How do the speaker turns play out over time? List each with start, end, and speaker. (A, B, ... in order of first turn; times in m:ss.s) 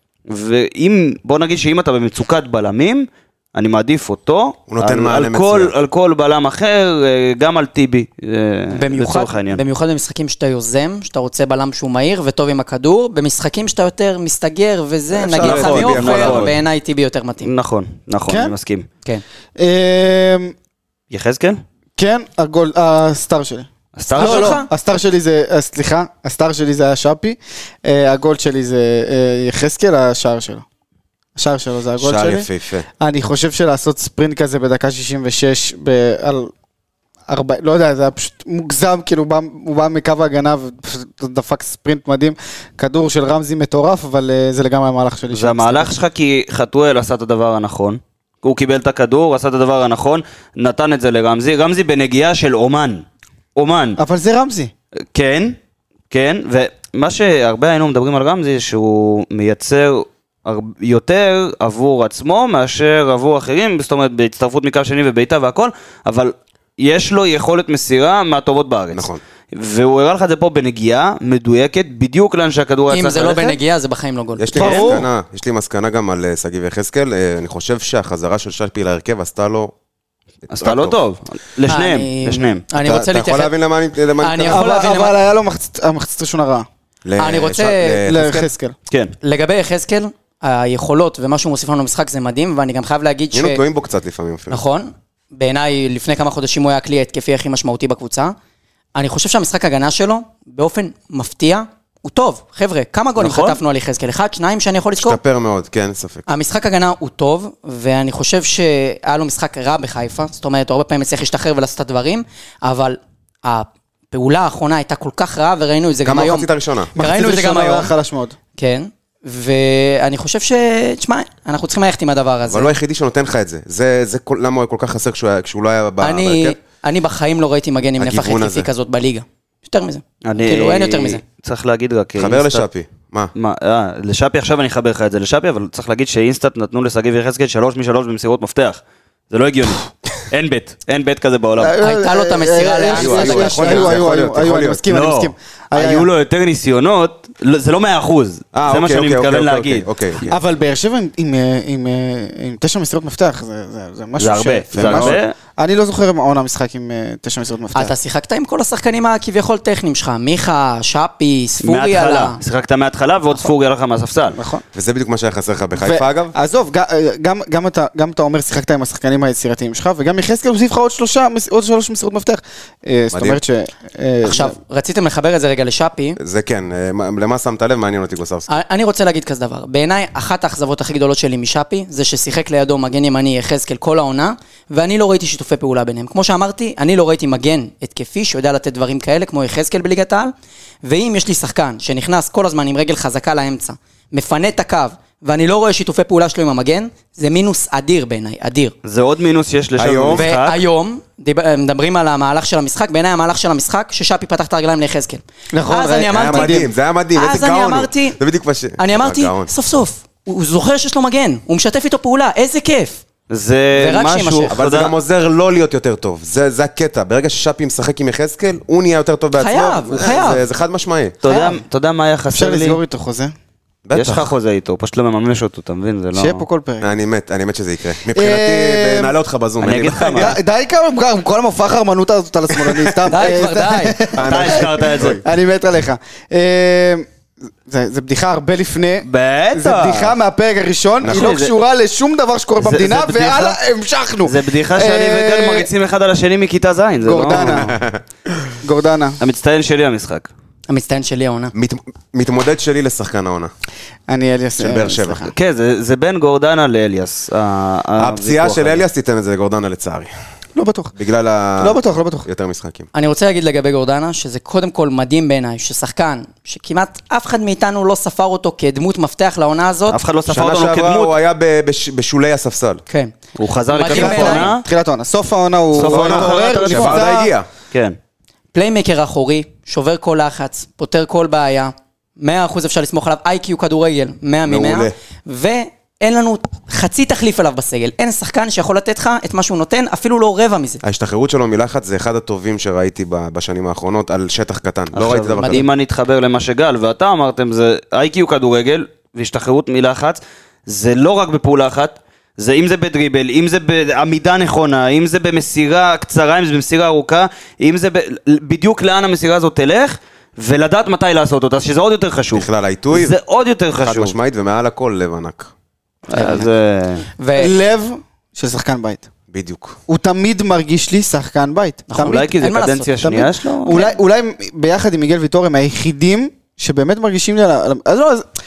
0:00.3-0:09.6 A
0:04.7-0:05.7 B
0:08.7-0:17.5 C
0:15.1-0:16.6 B
0:15.4-0:16.6 A
0:17.4-0:18.9 A
0:18.3-0:18.6 D
0:19.6-0:20.5 D
0:21.1-0:21.6 A
0:22.0-0:30.6 D
0:24.0-0:24.6 A
0:24.1-0:24.7 C
0:31.4-0:32.5 D
0:32.0-0:32.9 B
0:33.0-0:36.5 D
0:37.3-0:46.0 D
0:45.3-0:53.0 A
0:53.6-0:54.0 A
0:54.0-0:54.7 D
0:55.1-0:55.6 A
0:56.1-1:13.6 A
1:08.9-1:09.2 B
1:12.9-1:14.9 C
1:14.4-1:19.7 B
1:14.6-1:15.1 D
1:14.6-1:14.9 A
1:20.5-1:21.0 B
1:20.5-1:22.6 A
1:21.7-1:23.5 C
1:22.8-1:24.7 B
1:24.2-1:25.2 C
1:24.5-1:26.7 D
1:27.0-1:28.5 B
1:27.2-1:28.3 C
1:28.0-1:28.8 D
1:29.2-1:33.6 C
1:33.3-1:34.6 B
1:34.5-1:38.4 C
1:39.0-1:45.2 C
1:43.2-1:43.6 A
1:45.0-1:46.3 B
1:46.3-1:57.9 C
1:56.0-1:56.9 B
1:57.0-1:58.4 D
1:58.6-2:02.8 C
2:02.5-2:06.6 B
2:06.0-2:11.2 C
2:08.0-2:08.7 B
2:10.2-2:12.7 A
2:12.2-2:13.3 B
2:13.4-2:21.8 A
2:21.6-2:26.1 D
2:21.8-2:24.0 C
2:22.9-2:24.8 B
2:23.4-2:23.7 A
2:24.9-2:29.9 A
2:28.5-2:30.4 B
2:30.3-2:37.9 D
2:34.2-2:35.3 A
2:34.7-2:35.2 B
2:37.8-2:42.4 C
2:41.6-2:44.4 A
2:44.3-2:44.6 D
2:44.7-2:46.3 B
2:45.8-2:54.6 D
2:53.1-2:53.4 B
2:54.2-2:56.2 C
2:56.2-2:58.5 B
2:58.5-3:10.3 C
3:10.8-3:18.7 C
3:18.8-3:20.6 A
3:19.8-3:20.2 B
3:20.2-3:28.2 C
3:25.5-3:26.7 D
3:26.1-3:29.5 B
3:28.8-3:33.0 C
3:33.3-3:34.9 A
3:33.8-3:34.6 C
3:34.5-3:41.2 B
3:39.4-3:40.4 C
3:41.2-3:42.8 A
3:41.3-3:41.5 D
3:42.3-3:43.3 D
3:43.9-3:44.3 B
3:43.9-3:46.4 A
3:46.2-3:46.9 D
3:46.8-3:50.4 B
3:48.1-3:49.2 D
3:49.6-3:50.4 A
3:50.1-3:57.1 D
3:52.6-3:52.9 B
3:53.1-3:54.1 C
3:54.2-3:55.2 B
3:54.2-3:55.2 A
3:57.7-4:05.7 D
3:59.0-4:00.2 A
4:01.0-4:01.4 B
4:01.0-4:01.5 A
4:02.6-4:03.6 A
4:04.2-4:07.8 A
4:07.0-4:07.8 D
4:07.3-4:08.0 B
4:08.6-4:09.2 D
4:09.2-4:10.3 A
4:10.7-4:11.5 C
4:11.6-4:13.5 B
4:14.1-4:15.3 D
4:14.6-4:15.3 B
4:15.3-4:18.8 A
4:18.0-4:20.1 B
4:20.6-4:20.9 D
4:21.0-4:22.9 B
4:21.6-4:22.3 D
4:22.9-4:30.0 C
4:29.9-4:31.1 A
4:30.3-4:32.8 B
4:32.9-4:33.1 C
4:33.4-4:34.6 A
4:33.7-4:34.5 C
4:33.9-4:37.3 D
4:35.7-4:37.2 A
4:35.8-4:37.5 B
4:37.7-4:38.0 A
4:38.5-4:50.8 C
4:44.5-4:44.9 B
4:50.8-4:55.7 B
4:54.9-5:14.2 A
4:55.4-4:55.6 C
5:12.3-5:13.2 B
5:13.8-5:15.5 B
5:16.1-5:17.1 A
5:16.1-5:16.5 C
5:17.2-5:17.6 C
5:17.4-5:19.1 D
5:19.3-5:19.8 B
5:19.9-5:22.2 D
5:21.9-5:22.9 C
5:22.0-5:23.8 A
5:23.0-5:28.3 D
5:23.7-5:24.0 C